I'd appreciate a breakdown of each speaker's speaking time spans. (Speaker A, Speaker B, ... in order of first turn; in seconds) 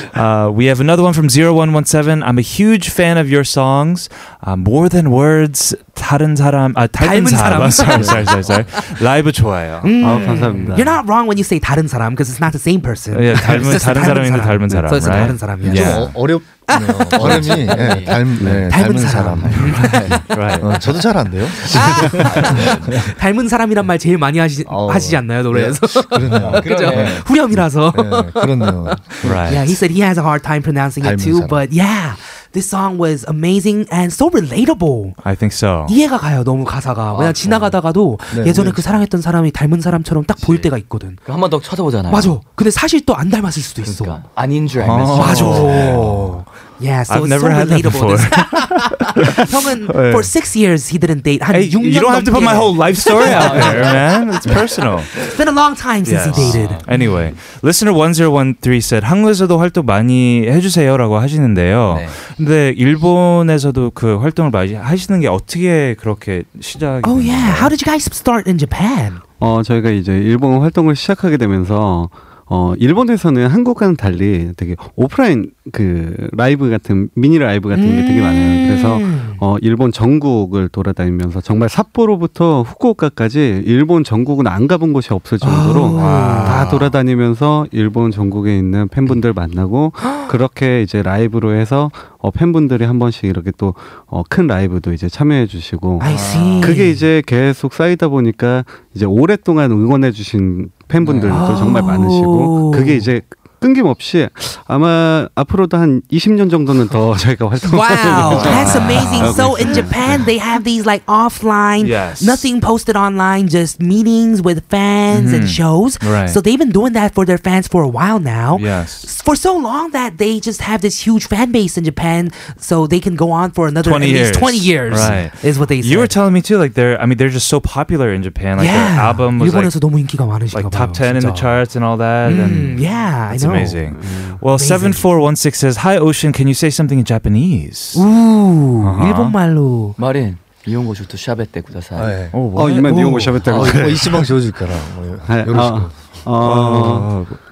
Speaker A: 0.1-10.8, 13.1-16.3, 19.5-20.9, 29.2-29.8, 35.2-36.0, 44.8-46.4, 47.1-50.3, 51.5-55.1, 56.0-67.7, 86.0-86.8, 108.2-109.9, 111.8-112.5, 115.1-116.4, 118.5-119.1, 123.8-129.8, 130.5-138.0, 138.8-139.4, 142.3-143.4, 146.4-147.4
Speaker B: 7.0-8.8, 9.8-16.1, 16.7-17.5, 18.7-20.2, 21.6-35.2, 35.9-41.2, 42.1-44.2, 45.1-54.5, 55.2-57.1, 67.0-69.2, 77.7-79.4, 85.4-86.8, 96.0-97.0, 101.3-103.1, 107.7-126.2, 128.6-131.6, 132.2-133.8, 134.5-135.1, 137.9-140.0, 142.8-143.4
Speaker C: 10.0-11.0, 18.4-18.7, 69.4-110.2, 134.0-134.4, 142.5-144.4, 145.3-147.2
Speaker D: 15.6-23.0, 24.7-29.5, 31.0-31.6, 38.3-39.0, 96.0-96.8, 141.9-142.4, 143.5-146.2
Speaker E: 17.1-18.3, 19.4-20.2, 21.8-23.0, 26.4-27.3, 37.1-37.8, 40.4-40.7, 41.2-42.4, 43.8-46.1, 53.2-54.6, 56.3-56.8, 61.9-62.2, 101.0-101.4, 140.0-142.2, 143.5-143.8